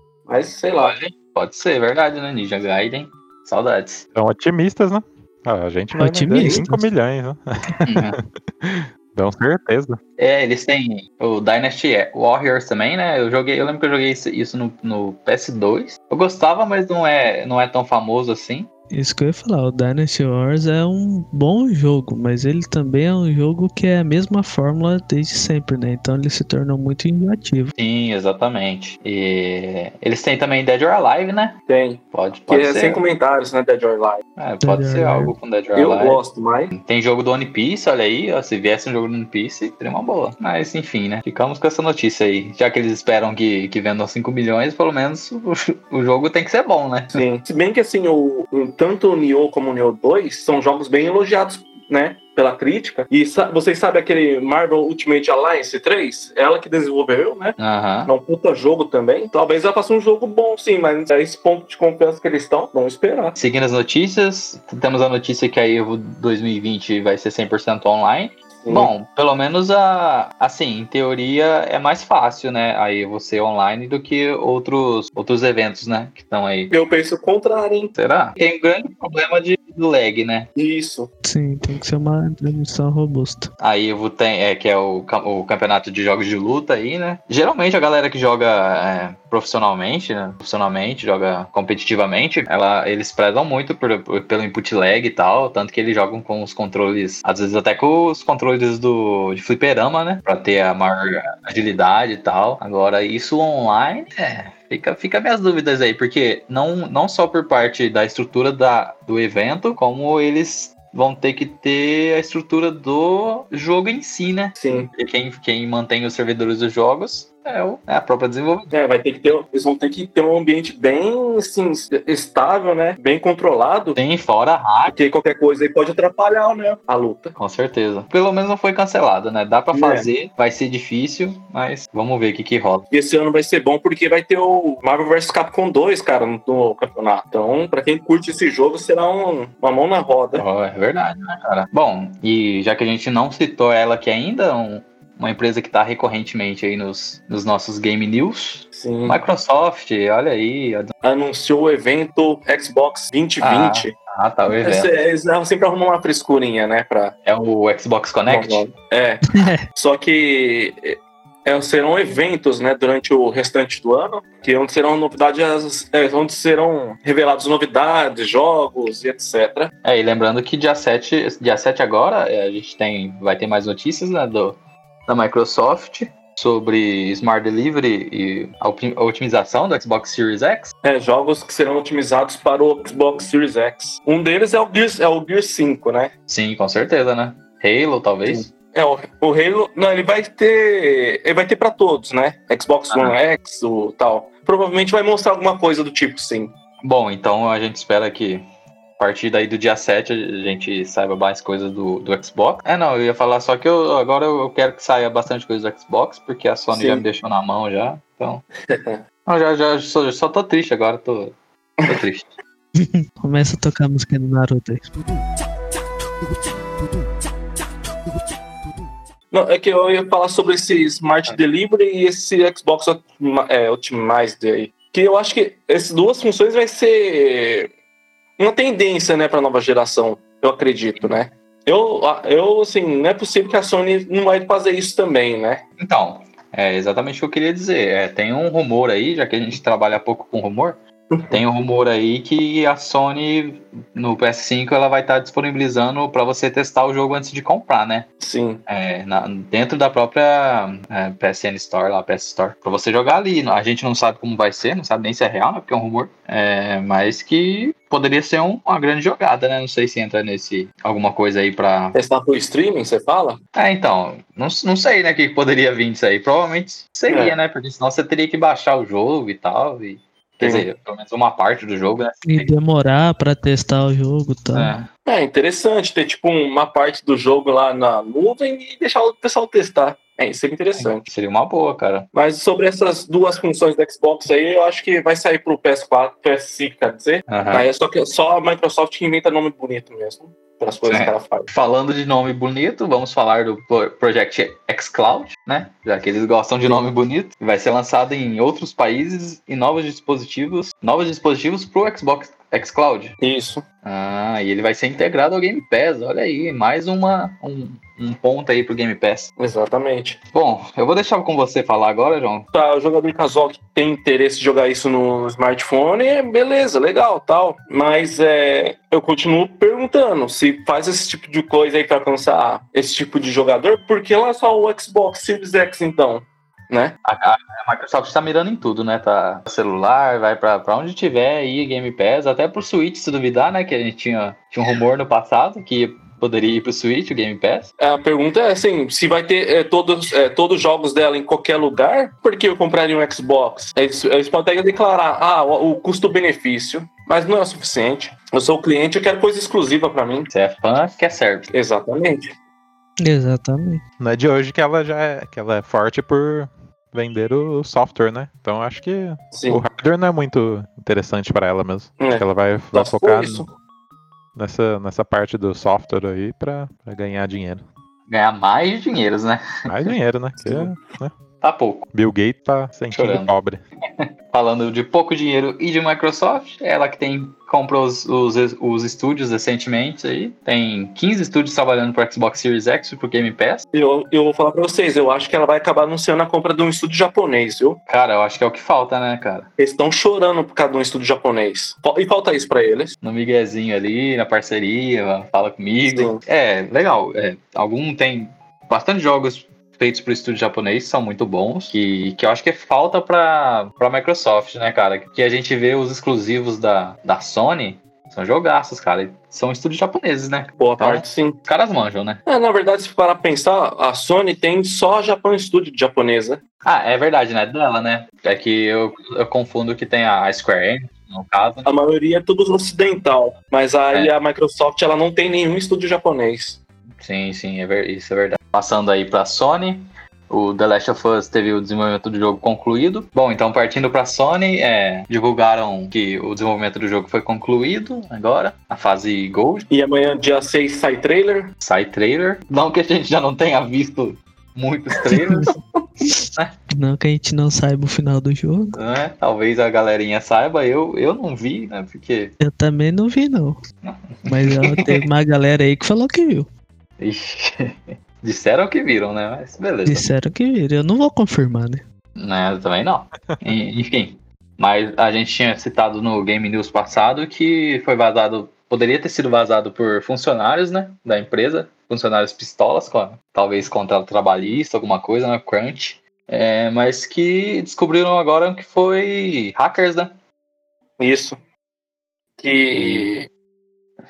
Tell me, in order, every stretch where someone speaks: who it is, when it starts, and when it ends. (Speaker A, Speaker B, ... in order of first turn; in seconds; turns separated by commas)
Speaker A: 0.3-0.9, Speaker B: 0.8-4.0, Speaker C: 4.1-10.0, Speaker D: 5.9-6.9, Speaker B: 7.8-8.2, Speaker B: 10.2-18.7, Speaker D: 18.9-27.7, Speaker B: 27.8-31.6, Speaker A: 31.7-34.2, Speaker B: 32.1-33.0, Speaker B: 34.4-47.2, Speaker D: 34.6-35.3, Speaker A: 35.8-36.7, Speaker A: 47.1-63.4, Speaker B: 57.6-58.1, Speaker B: 63.3-76.7, Speaker A: 68.6-68.9, Speaker A: 76.7-77.9, Speaker B: 78.0-80.5, Speaker A: 80.5-81.1, Speaker D: 81.2-83.5, Speaker B: 83.6-118.7, Speaker A: 114.5-114.9, Speaker A: 118.7-124.0, Speaker B: 124.0-124.9, Speaker A: 124.9-127.3, Speaker B: 127.3-132.8, Speaker A: 129.7-130.1, Speaker A: 132.9-140.4, Speaker B: 140.3-150.9, Speaker A: 148.7-149.2, Speaker A: 151.0-153.9, Speaker B: 153.4-154.9, Speaker A: 154.6-157.1, Speaker B: 157.2-158.6, Speaker A: 158.3-169.7, Speaker D: 159.3-159.6, Speaker B: 169.8-180.7, Speaker A: 180.8-186.1, Speaker B: 186.3-188.5, Speaker A: 188.3-196.5, Speaker B: 192.9-193.2, Speaker B: 196.8-198.4, Speaker B: 199.0-208.4, Speaker A: 206.7-207.0, Speaker A: 208.7-209.0, Speaker B: 209.2-211.3, Speaker B: 211.8-212.3, Speaker D: 212.8-214.9, Speaker A: 219.3-227.7, Speaker A: 228.4-235.6, Speaker B: 235.8-240.8, Speaker A: 241.1-241.4, Speaker B: 241.3-248.1, Speaker A: 248.2-248.6, Speaker B: 248.7-261.9, Speaker A: 261.9-263.4, Speaker B: 263.5-272.5, Speaker A: 267.1-267.4, Speaker A: 270.4-270.7, Speaker D: 272.2-274.7, Speaker B: 274.5-274.9, Speaker A: 275.1-281.0, Speaker B: 280.8-282.1, Speaker A: 282.1-291.5, Speaker B: 287.3-287.7, Speaker B: 290.9-303.1, Speaker A: 303.2-303.6, Speaker B: 303.8-309.3, Speaker A: 309.4-310.2, Speaker B: 310.3-312.5, Speaker A: 312.5-326.9, Speaker B: 327.0-337.7, Speaker A: 337.8-350.3, Speaker B: 350.3-351.5, Speaker A: 351.5-352.3, Speaker D: 353.0-353.8, Speaker C: 354.0-363.5, Speaker A: 359.3-359.6, Speaker A: 362.0-363.5, Speaker C: 364.4-367.6, Speaker B: 368.1-369.9, Speaker C: 369.7-371.1, Speaker B: 371.4-371.9, Speaker C: 371.9-373.6, Speaker B: 372.9-373.3, Speaker B: 374.0-383.6, Speaker A: 383.7-387.8, Speaker B: 387.9-389.5, Speaker A: 389.6-392.9, Speaker B: 393.0-412.2, Speaker A: 395.9-396.2, Speaker A: 410.6-411.4, Speaker A: 412.2-416.4, Speaker B: 416.6-421.7, Speaker A: 421.6-426.6, Speaker B: 427.0-439.7, Speaker A: 439.7-441.5, Speaker B: 441.6-445.5, Speaker D: 445.1-445.5, Speaker D: 446.8-448.8, Speaker B: 448.7-452.3, Speaker D: 452.4-453.6, Speaker B: 453.8-454.8, Speaker D: 454.2-456.5, Speaker B: 457.0-460.1, Speaker D: 459.9-461.8, Speaker B: 462.2-480.1, Speaker A: 481.0-481.4, Speaker A: 482.4-483.3, Speaker B: 482.7-483.1